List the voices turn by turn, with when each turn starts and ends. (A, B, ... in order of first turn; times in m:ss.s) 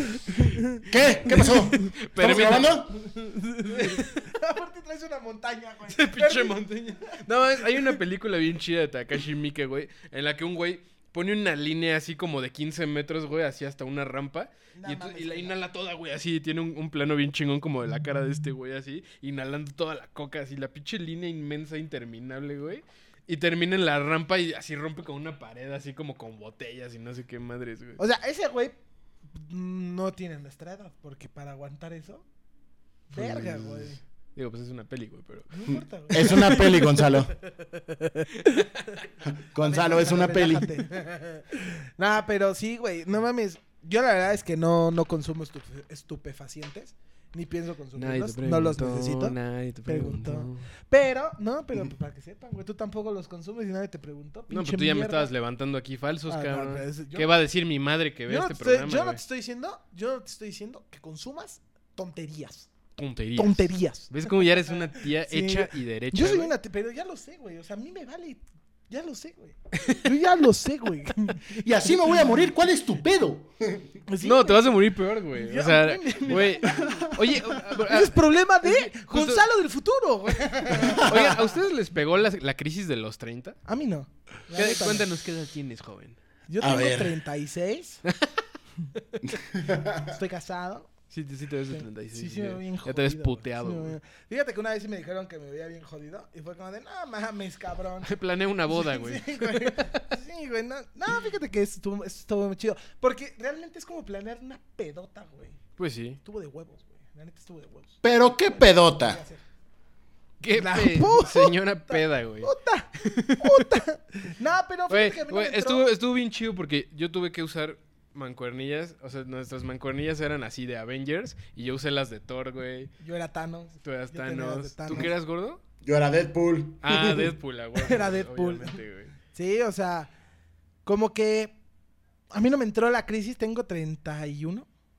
0:00.3-0:00.8 A
0:00.8-0:03.0 B
0:01.9-0:02.8 C
0:03.0-0:06.6 A
0:03.7-0:04.1 C
0:05.9-0:28.0 C
0:14.8-0:15.5 A
0:28.0-0:28.8 A
0:29.3-0:32.2 A
0:33.1-0:34.0 A
0:33.1-0:35.5 C
0:35.5-0:36.9 A
0:35.7-0:37.3 B
0:37.6-0:38.3 A
0:39.2-0:40.7 B
0:39.6-0:55.3 A
0:48.0-0:50.6 C
0:54.5-0:59.2 C
0:56.3-0:57.3 A
0:58.3-1:02.7 A
1:03.0-1:06.5 C
1:03.4-1:04.5 A
1:05.2-1:11.5 A
1:09.8-1:10.0 C
1:11.5-1:13.9 B
1:14.1-1:17.0 A
1:14.2-1:19.4 C
1:17.8-1:21.3 A
1:20.7-1:23.6 C
1:23.7-1:25.1 A
1:24.5-1:26.2 C
1:26.5-1:28.0 A
1:26.6-1:27.2 B
1:29.2-1:30.2 B
1:30.1-1:30.9 A
1:31.1-1:34.0 C
1:31.7-1:38.1 A
1:38.0-1:39.9 C
1:38.7-1:45.6 A
1:45.8-1:46.2 C
1:46.2-1:49.4 A
1:48.0-1:49.2 B
1:50.4-1:52.5 C
1:50.5-1:55.8 A
1:53.0-1:53.6 C
1:54.9-2:02.9 C
2:03.0-2:05.1 A
2:03.8-2:05.6 C
2:05.8-2:07.3 B
2:06.8-2:09.1 C
2:07.8-2:08.8 A
2:09.3-2:10.1 A
2:10.8-2:11.5 A
2:12.3-2:14.7 A